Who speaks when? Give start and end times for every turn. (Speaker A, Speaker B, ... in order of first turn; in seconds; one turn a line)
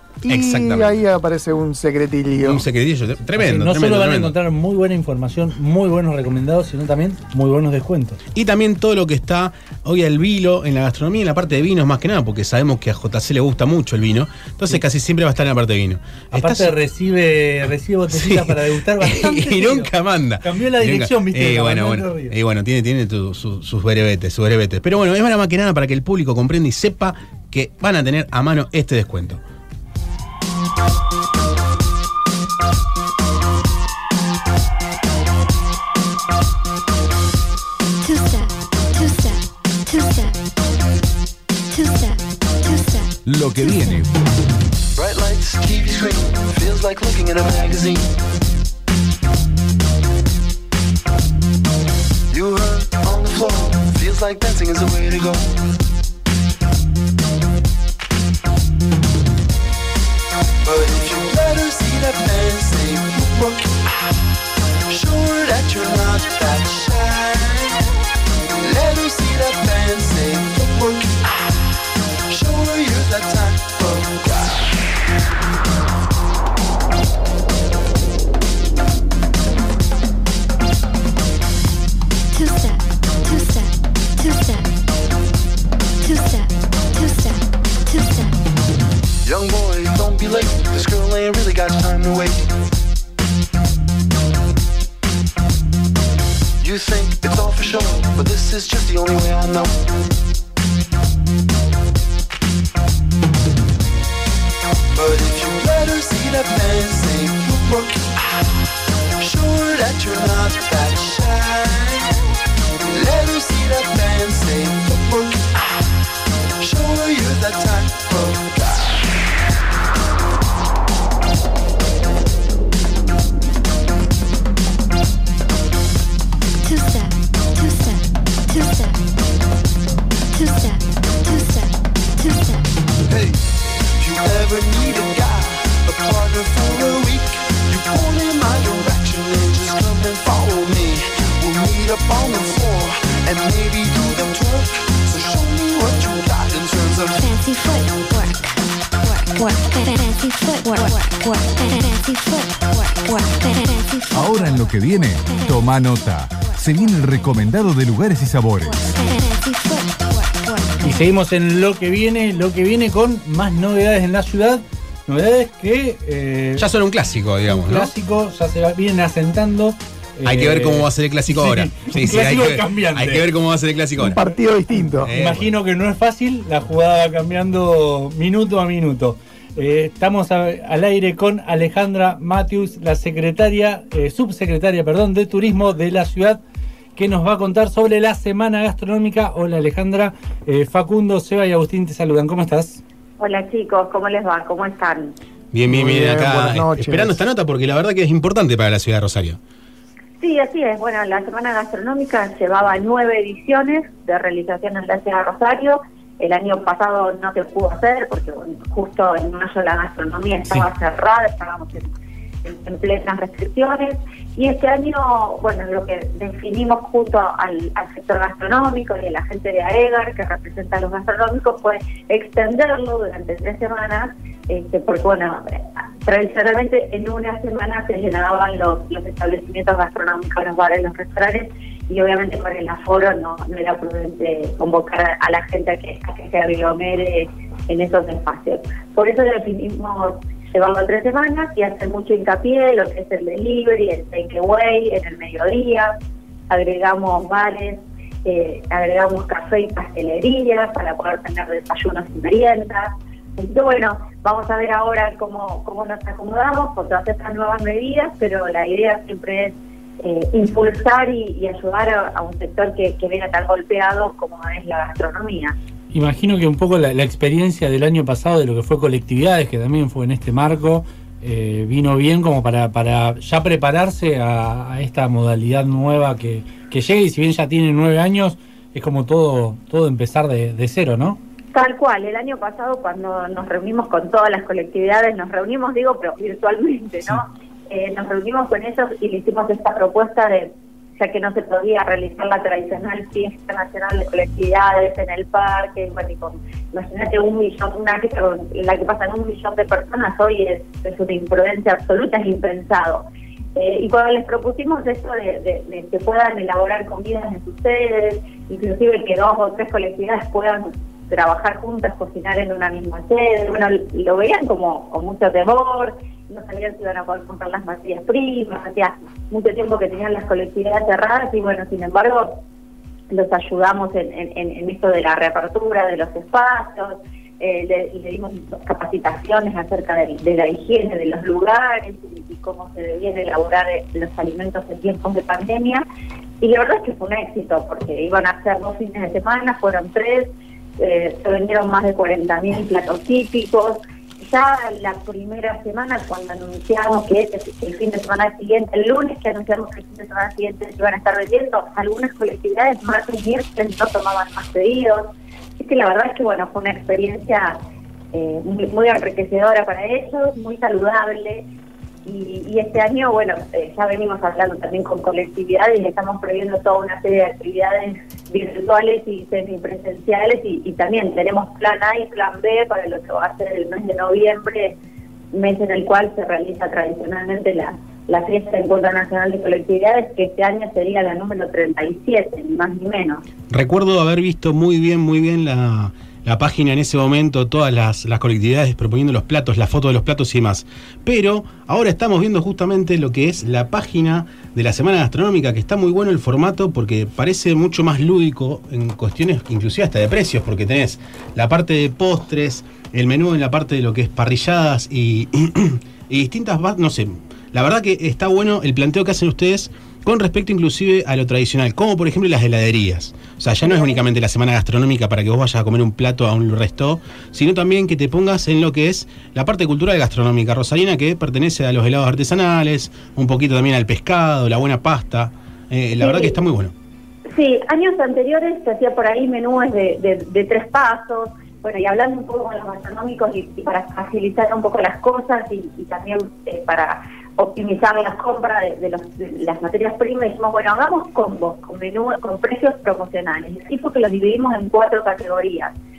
Speaker A: 0.2-2.7
Speaker B: 0.3-1.0
Speaker B: 2.4-4.3
Speaker C: 3.3-8.2
Speaker B: 8.3-16.7
Speaker C: 16.3-19.9
Speaker B: 18.1-29.4
Speaker C: 20.4-22.4
Speaker D: 43.2-44.2
Speaker E: 45.0-48.1
Speaker E: 52.3-55.5
Speaker E: 60.6-63.9
Speaker E: 64.9-67.8
Speaker E: 68.6-71.4
Speaker E: 72.3-74.7
Speaker E: 89.2-92.5
Speaker E: 96.6-99.8
Speaker E: 104.9-108.3
Speaker E: 109.2-112.2
Speaker E: 112.8-115.7
Speaker E: 116.6-119.0
Speaker E: 133.1-147.2
Speaker F: 147.2-148.4
Speaker F: 149.0-154.3
Speaker D: 154.1-158.9
Speaker F: 158.8-160.9
Speaker C: 160.8-166.7
Speaker B: 166.6-167.9
Speaker C: 167.5-173.3
Speaker B: 170.2-174.2
Speaker A: 174.0-175.1
Speaker B: 175.0-175.5
Speaker C: 175.1-186.4
Speaker C: 187.0-192.8
Speaker G: 193.2-195.2
Speaker B: 195.5-199.4
Speaker A: 195.7-197.2
Speaker G: 200.2-211.9
Speaker G: 212.4-246.0
Speaker G: 246.5-265.6
Speaker C: 265.9-281.2
Speaker G: 281.5-322.4
Speaker G: 323.1-335.9
Speaker G: 336.4-357.6
Speaker G: 358.1-361.5
Speaker G: 362.1-374.8
Speaker G: 375.3-383.2
Speaker B: 383.5-426.7
Speaker G: 413.6-414.0
Speaker G: 426.0-426.4
Speaker G: 427.3-445.8